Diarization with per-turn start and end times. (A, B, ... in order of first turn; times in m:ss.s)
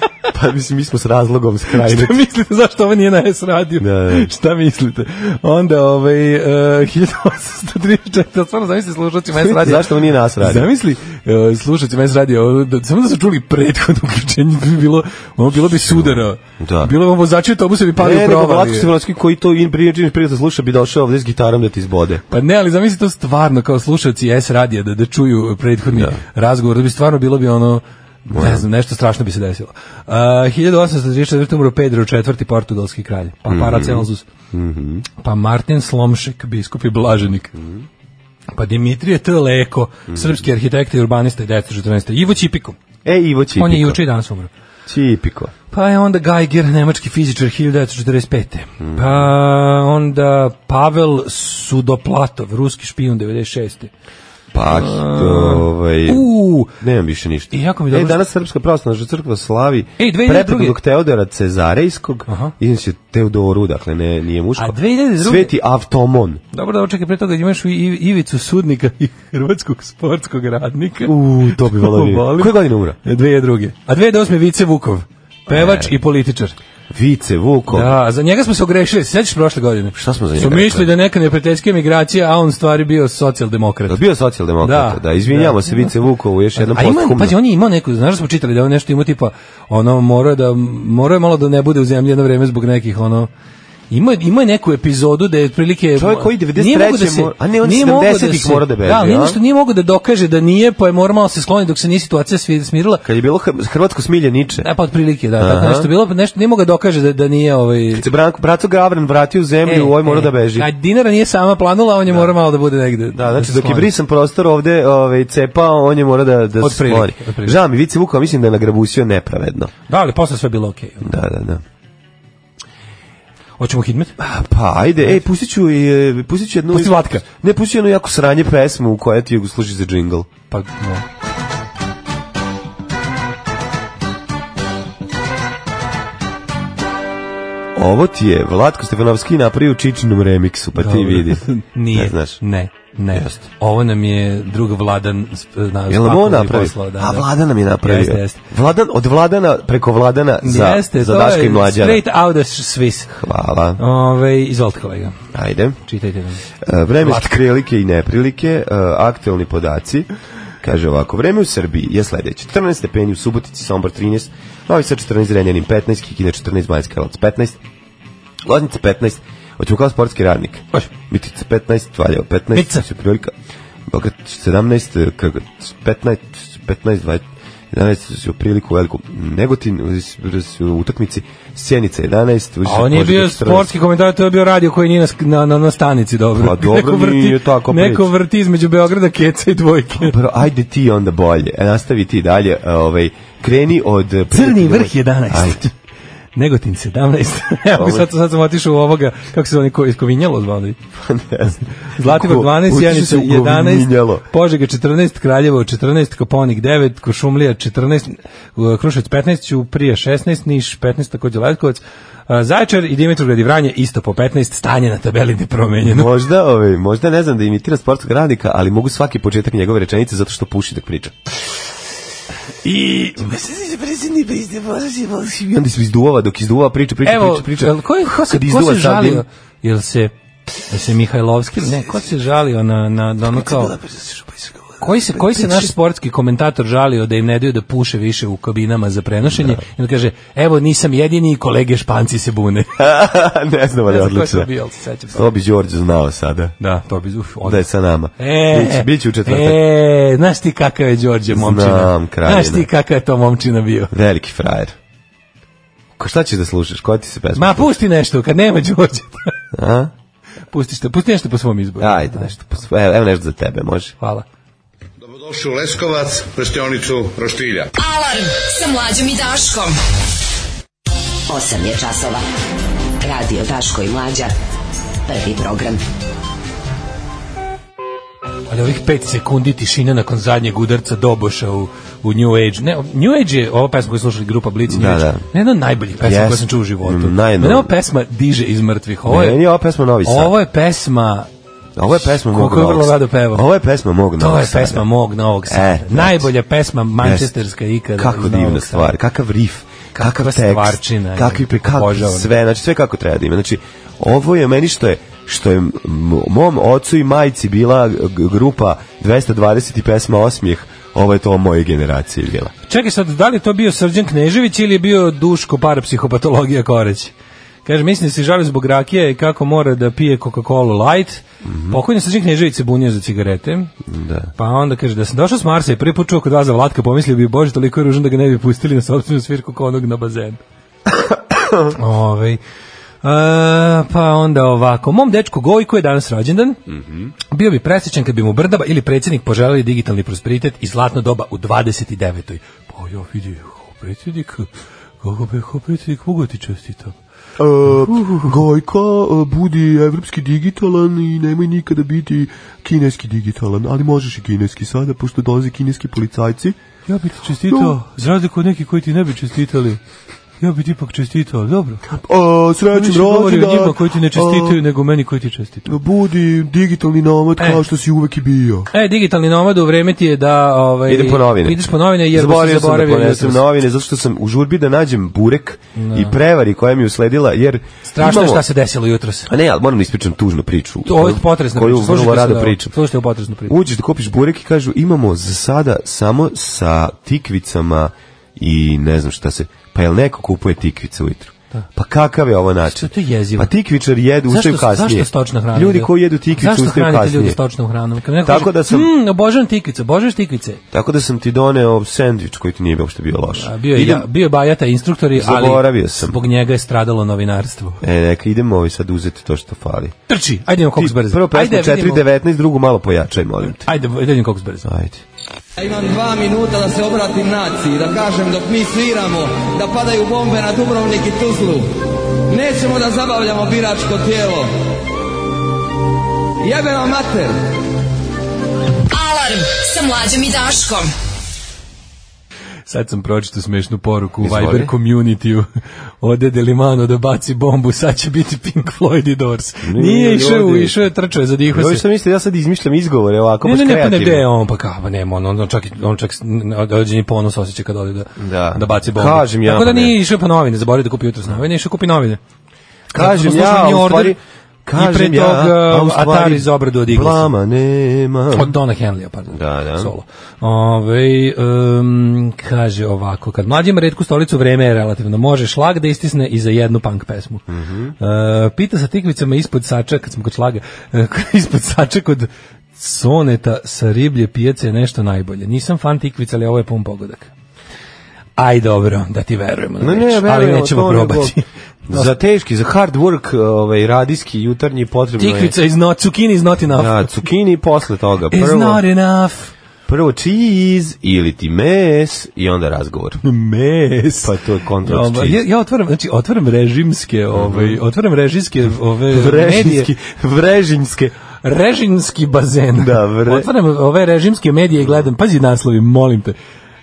0:00.3-0:02.2 A
0:01.7-0:18.9 B
0:03.8-0:04.3 A
0:09.3-0:10.7 A
0:15.8-0:16.9 A
0:18.0-0:22.2 A
0:22.3-0:34.3 B
0:25.9-0:26.2 A
0:28.3-0:28.6 A
0:33.5-0:35.1 A
0:35.2-0:37.5 B
0:37.6-0:37.8 A
0:38.5-0:42.8 B
0:40.1-0:40.4 A
0:43.0-0:44.0 A
0:43.6-0:44.5 B
0:44.9-0:45.5 A
0:45.7-0:53.9 B
0:48.8-0:49.3 A
0:54.5-1:06.4 A
0:54.7-0:56.8 B
0:57.5-0:58.2 B
1:00.0-1:00.8 B
1:02.3-1:02.5 B
1:04.6-1:05.5 B
1:06.5-1:16.6 B
1:11.0-1:13.0 A
1:15.5-1:16.0 A
1:16.9-1:18.0 A
1:17.7-1:24.0 B
1:20.0-1:20.9 A
1:23.9-1:27.4 A
1:24.6-1:25.9 B
1:26.6-1:33.3 B
1:33.9-1:43.0 B
1:36.0-1:39.4 A
1:43.0-1:44.7 A
1:44.6-1:48.0 B
1:45.4-1:45.9 A
1:48.0-1:50.7 A
1:49.6-1:53.9 B
1:52.1-1:52.3 A
1:53.1-1:59.7 A
1:56.6-1:57.6 B
1:59.9-2:01.1 B
2:01.0-2:01.6 A
2:03.6-2:04.2 B
2:04.2-2:10.3 A
2:06.7-2:07.2 B
2:10.5-2:11.0 B
2:17.8-2:22.4 A
2:20.8-2:27.3 B
2:25.9-2:32.0 A
2:27.8-2:28.4 B
2:30.4-2:33.1 B
2:33.1-2:33.8 A
2:33.8-2:35.2 B
2:35.3-2:35.8 A
2:35.9-2:36.4 B
2:36.6-2:40.1 A
2:40.6-2:47.6 A
2:48.4-2:53.3 A
2:52.5-2:52.8 B
2:53.9-3:03.7 A
3:02.6-3:10.2 B
3:06.4-3:08.1 A
3:10.0-3:15.6 A
3:14.3-3:15.7 B
3:16.4-3:20.8 B
3:17.8-3:18.1 A
3:21.0-3:24.2 A
3:21.9-3:36.1 B
3:35.8-3:41.2 A
3:42.6-3:45.3 B
3:45.2-3:49.2 A
3:47.0-3:50.1 B
3:50.6-3:53.8 B
3:53.2-3:55.7 A
3:54.8-4:02.8 B
3:59.3-3:59.6 A
4:02.8-4:04.5 A
4:03.9-4:05.3 B
4:05.1-4:06.6 A
4:06.6-4:07.6 B
4:07.4-4:09.6 A
4:08.2-4:13.9 B
4:11.3-4:12.7 A
4:13.9-4:14.8 A
4:16.0-4:17.7 A
4:17.4-4:19.3 B
4:19.5-4:19.9 A
4:20.5-4:22.4 B
4:21.8-4:23.9 A
4:24.0-4:24.3 B
4:25.0-4:27.7 C
4:27.8-4:29.8 D
4:31.3-4:32.2 E
4:33.0-4:34.3 E
4:35.1-4:35.8 E
4:38.5-4:49.4 B
4:44.7-4:45.2 A
4:46.0-4:47.7 A
4:49.1-4:50.3 A
4:50.0-4:51.3 B
4:51.8-4:54.9 A
4:52.0-4:53.5 B
4:54.2-4:58.9 B
4:55.5-4:56.3 A
4:57.0-4:57.4 A
4:58.0-5:12.5 A
5:00.0-5:02.3 B
5:12.7-5:17.1 B
5:17.6-5:23.7 B
5:21.4-5:21.8 A
5:23.9-5:24.3 A
5:24.4-5:30.4 B
5:31.7-5:32.4 B
5:33.0-5:36.6 B
5:36.7-5:37.1 A
5:37.2-5:44.5 B
5:45.0-5:47.0 B
5:47.4-5:56.6 A
5:56.9-5:59.8 B
5:57.5-5:57.8 A
6:00.4-6:01.8 B
6:01.9-6:04.6 A
6:02.7-6:05.7 B
6:05.7-6:08.7 A
6:08.7-6:13.4 B
6:10.9-6:18.4 A
6:15.8-6:16.2 B
6:17.9-6:19.3 B
6:19.3-6:22.8 A
6:20.8-6:23.6 B
6:23.5-6:37.4 A
6:32.7-6:33.5 B
6:34.3-6:40.6 B
6:38.2-6:38.9 A
6:40.7-6:44.1 A
6:43.3-6:47.8 B
6:45.2-6:46.2 A
6:47.8-6:50.0 A
6:50.1-6:52.0 B
6:50.8-6:53.7 A
6:53.6-6:54.7 B
6:54.6-6:55.0 A
6:55.6-7:04.5 F
7:06.4-7:07.5 F
7:08.9-7:10.9 D
7:12.7-7:15.5 B
7:14.2-7:14.7 A
7:16.0-7:21.8 B
7:19.6-7:20.8 A
7:21.5-7:24.2 A
7:23.4-7:32.2 B
7:28.2-7:30.0 A
7:32.9-7:38.5 A
7:33.0-7:34.2 B
7:34.8-7:37.3 B
7:38.3-7:47.4 B
7:39.3-7:39.9 A
7:47.5-7:48.0 A
7:48.0-7:57.3 B
7:58.4-8:02.1 B
7:59.8-8:05.6 A
8:05.2-8:07.2 B
8:06.7-8:08.8 A
8:08.3-8:09.5 B
8:09.9-8:13.2 A
8:13.2-8:14.3 B
8:14.2-8:15.4 A
8:14.8-8:19.9 B
8:17.3-8:17.8 A
8:19.1-8:21.1 A
8:21.4-8:26.4 B
8:22.8-8:23.5 A